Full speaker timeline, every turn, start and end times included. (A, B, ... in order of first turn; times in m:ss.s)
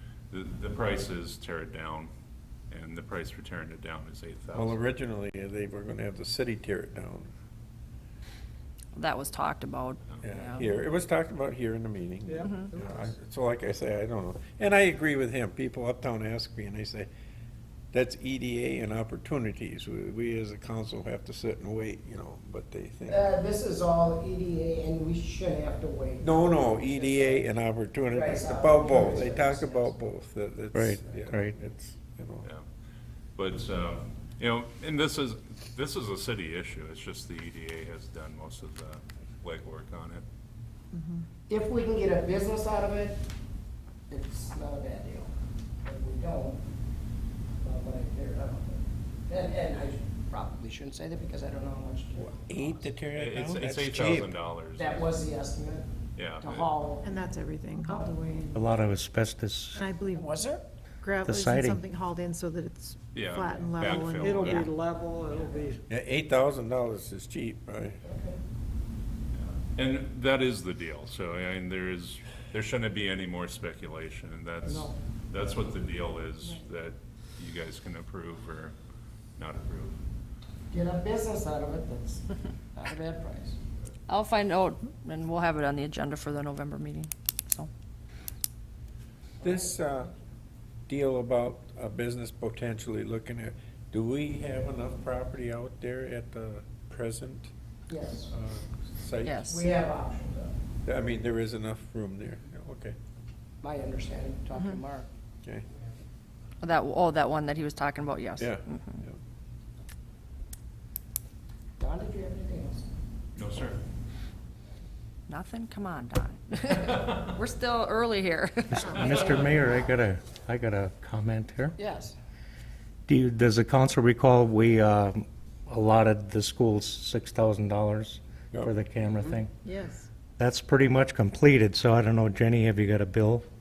0:00.3-0:02.1 A
0:02.7-0:04.8 A
0:04.5-0:07.3 B
0:09.0-0:10.7 C
0:10.2-0:17.1 B
0:12.2-0:13.0 D
0:12.4-0:12.7 C
0:17.9-0:23.3 B
0:23.1-0:27.5 E
0:26.2-0:32.5 B
0:28.1-0:29.9 E
0:30.7-0:31.5 F
0:33.4-0:40.2 A
0:40.9-0:41.2 G
0:41.5-0:43.2 E
0:44.1-0:45.3 E
0:45.8-0:46.6 E
0:47.6-0:52.8 E
0:52.3-0:54.4 B
0:53.1-0:55.1 A
0:54.8-0:55.9 E
0:56.2-0:56.7 A
0:56.4-0:57.3 E
0:57.0-0:58.7 G
0:57.8-0:58.2 E
0:58.5-0:59.9 F
0:59.8-1:00.3 G
1:00.1-1:00.6 E
1:01.0-1:04.7 G
1:01.2-1:01.8 F
1:03.1-1:04.8 A
1:04.2-1:05.8 D
1:05.3-1:05.7 E
1:05.9-1:08.0 B
1:08.0-1:08.4 E
1:09.4-1:18.8 A
1:19.4-1:20.0 A
1:20.7-1:23.6 E
1:24.1-1:27.7 C
1:29.4-1:29.7 E
1:29.4-1:30.1 B
1:30.9-1:37.5 B
1:37.9-1:38.3 E
1:38.3-1:39.5 B
1:39.2-1:39.7 C
1:39.4-1:40.5 E
1:40.8-1:43.0 B
1:43.6-1:45.1 E
1:46.6-1:49.0 C
1:48.4-1:49.2 B
1:51.8-1:52.9 E
1:53.4-1:53.8 A
1:55.3-1:59.4 C
1:58.7-2:01.8 F
2:01.8-2:02.2 E
2:03.1-2:09.5 F
2:09.7-2:10.0 G
2:10.4-2:13.4 F